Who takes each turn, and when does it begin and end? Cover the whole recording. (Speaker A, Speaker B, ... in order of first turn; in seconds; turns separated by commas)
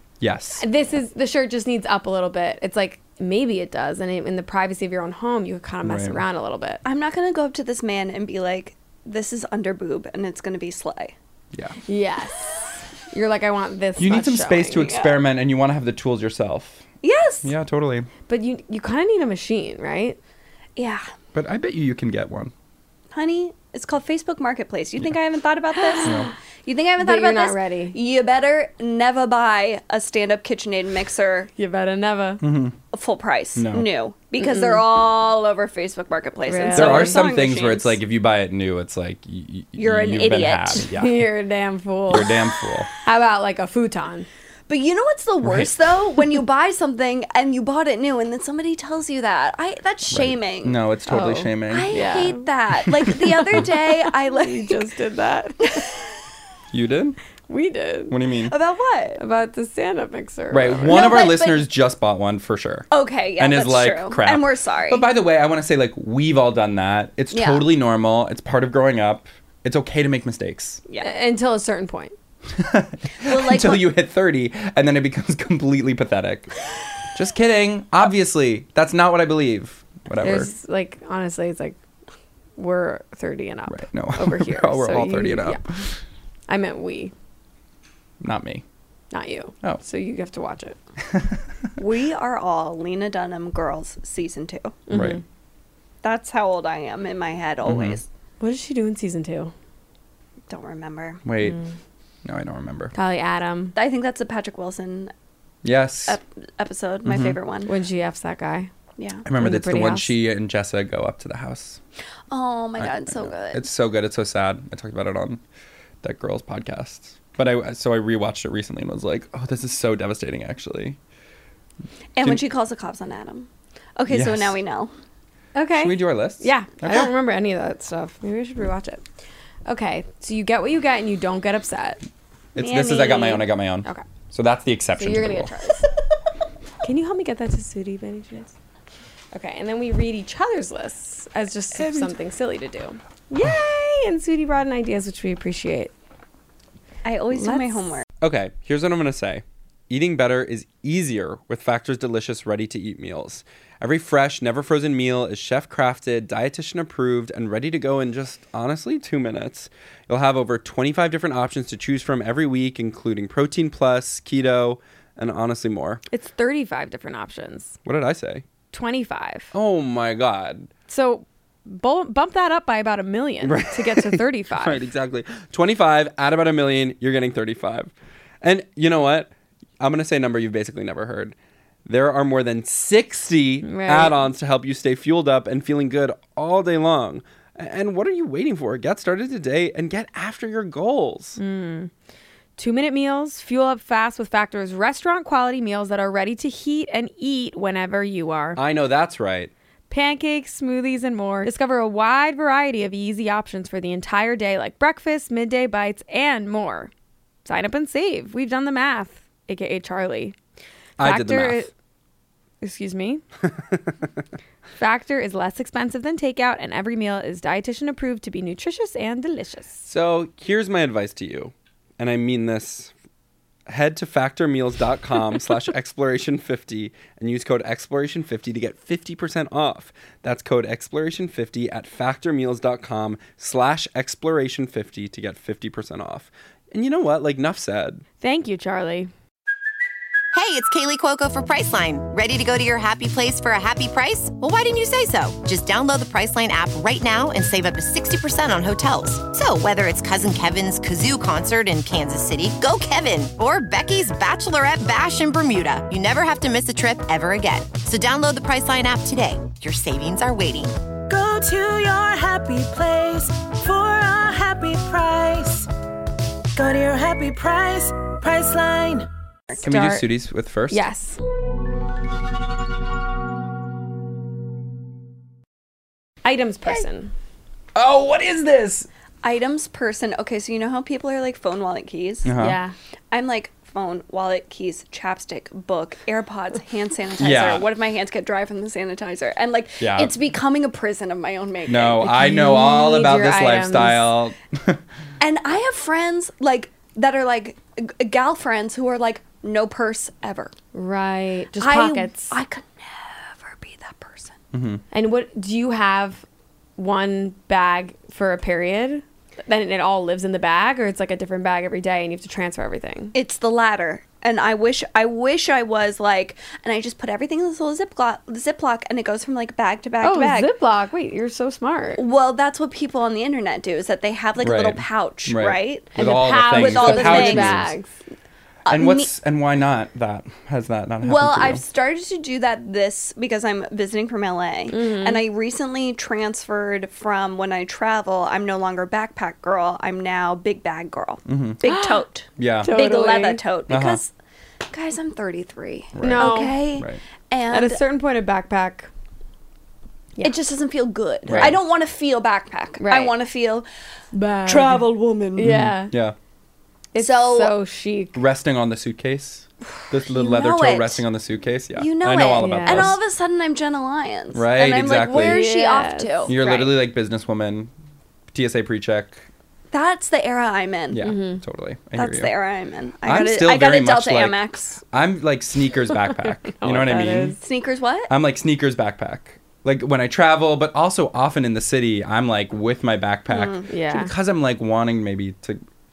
Speaker A: 0.2-0.6, Speaker B: 0.6-6.8, Speaker A: 5.8-6.2, Speaker C: 6.8-11.2, Speaker B: 11.9-14.9, Speaker A: 14.0-16.8, Speaker C: 14.8-15.2, Speaker C: 17.0-17.5, Speaker A: 17.4-18.1, Speaker B: 18.3-20.2, Speaker C: 20.8-21.1, Speaker A: 21.3-22.5, Speaker C: 23.1-31.5, Speaker B: 25.8-26.3, Speaker B: 27.0-28.0, Speaker B: 31.6-32.4, Speaker A: 32.4-32.8, Speaker C: 32.9-38.0, Speaker A: 33.6-33.9, Speaker B: 34.4-34.8, Speaker B: 36.5-37.2, Speaker A: 36.8-41.2, Speaker C: 39.8-40.9, Speaker B: 40.9-42.3, Speaker A: 42.1-42.9, Speaker B: 43.0-44.3, Speaker C: 44.7-50.8, Speaker A: 45.4-45.7, Speaker A: 50.1-52.1, Speaker B: 51.1-52.4, Speaker C: 51.7-54.8, Speaker A: 53.1-53.6, Speaker B: 53.4-55.9, Speaker C: 55.6-56.0, Speaker A: 56.7-57.2, Speaker B: 57.5-58.1, Speaker A: 58.1-58.5, Speaker C: 58.5-59.2, Speaker B: 59.2-61.2, Speaker A: 60.5-70.8, Speaker C: 60.9-61.6, Speaker C: 62.9-65.1, Speaker C: 67.3-67.7, Speaker B: 71.0-72.1, Speaker A: 72.5-76.5, Speaker C: 73.2-73.9, Speaker A: 77.1-80.5, Speaker B: 80.2-81.8, Speaker B: 82.6-85.6, Speaker A: 83.7-86.0, Speaker B: 86.5-87.1, Speaker A: 88.2-88.6, Speaker B: 89.1-90.8, Speaker A: 91.1-91.4, Speaker C: 91.8-94.8, Speaker B: 94.9-95.2, Speaker A: 94.9-95.2, Speaker C: 96.0-98.1, Speaker A: 97.7-98.0, Speaker B: 98.4-99.5, Speaker C: 100.5-101.2, Speaker A: 101.2-101.6, Speaker B: 101.4-101.7, Speaker A: 102.2-102.9, Speaker B: 102.9-103.8, Speaker C: 103.8-105.1, Speaker A: 105.6-106.2, Speaker C: 106.1-107.7, Speaker A: 107.0-107.4, Speaker B: 107.7-108.7, Speaker C: 109.0-109.2, Speaker A: 109.3-111.8, Speaker B: 109.3-110.1, Speaker C: 112.3-113.7, Speaker A: 112.8-115.4, Speaker A: 116.0-121.0, Speaker C: 122.2-124.9, Speaker A: 124.1-124.6, Speaker B: 125.5-129.0, Speaker A: 125.8-127.1, Speaker B: 129.7-132.0, Speaker A: 132.6-135.5, Speaker C: 132.6-133.4, Speaker B: 135.0-135.9, Speaker B: 136.8-138.5, Speaker B: 139.3-145.9, Speaker C: 147.0-148.1, Speaker B: 147.3-147.9, Speaker A: 148.2-166.0, Speaker B: 166.1-167.8, Speaker A: 167.8-168.4, Speaker B: 168.7-169.5, Speaker A: 169.5-170.7, Speaker B: 170.9-174.8, Speaker A: 173.4-191.4, Speaker B: 183.6-184.2, Speaker B: 191.4-191.9, Speaker B: 192.6-198.6, Speaker A: 198.6-199.5, Speaker B: 199.9-206.9, Speaker B: 207.4-210.4, Speaker A: 211.0-211.7, Speaker B: 211.0-211.7, Speaker B: 212.6-213.2, Speaker B: 214.8-219.8, Speaker A: 219.8-222.9, Speaker A: 223.7-238.0, Speaker B: 238.2-239.1, Speaker D: 240.3-260.8, Speaker E: 261.1-265.7, Speaker E: 266.6-269.1, Speaker B: 269.5-270.1, Speaker A: 269.6-270.9, Speaker B: 270.7-271.2, Speaker B: 276.2-277.1, Speaker A: 277.8-278.9, Speaker C: 279.2-282.3, Speaker A: 282.2-282.6, Speaker B: 282.4-282.8, Speaker C: 283.1-292.1, Speaker A: 287.2-287.7, Speaker A: 289.8-290.1, Speaker A: 291.7-294.8, Speaker B: 292.1-294.1, Speaker C: 295.2-300.5, Speaker B: 300.7-302.4, Speaker C: 301.6-304.4, Speaker A: 304.5-304.8, Speaker B: 304.9-306.2, Speaker B: 306.8-313.1, Speaker C: 313.1-320.5, Speaker B: 320.0-322.0, Speaker C: 322.0-327.6, Speaker A: 324.4-327.7, Speaker B: 326.0-327.9, Speaker C: 328.7-329.1, Speaker A: 328.7-331.6, Speaker C: 331.0-344.1, Speaker B: 334.7-335.2, Speaker A: 341.3-341.6, Speaker B: 341.6-342.0, Speaker A: 342.4-342.7, Speaker B: 342.6-343.4, Speaker A: 343.7-344.0, Speaker C: 344.7-347.8, Speaker A: 345.9-347.0, Speaker B: 346.0-346.6, Speaker B: 347.5-348.9, Speaker C: 350.2-353.7, Speaker A: 351.3-351.6, Speaker B: 352.8-353.1, Speaker B: 354.1-355.9, Speaker C: 354.5-355.5, Speaker A: 355.4-356.2, Speaker C: 356.9-357.6, Speaker B: 356.9-358.2, Speaker A: 358.1-363.0, Speaker C: 360.1-361.0, Speaker C: 361.8-366.4, Speaker B: 362.4-363.0, Speaker A: 364.3-365.4, Speaker B: 365.1-366.7, Speaker A: 366.3-367.7, Speaker A: 368.3-369.2, Speaker C: 369.7-371.0, Speaker A: 370.9-372.3, Speaker B: 371.0-371.4, Speaker C: 372.0-374.8, Speaker A: 373.1-377.4, Speaker B: 376.1-377.4, Speaker C: 377.4-378.1, Speaker A: 378.1-385.6, Speaker C: 383.3-383.7, Speaker B: 383.7-384.1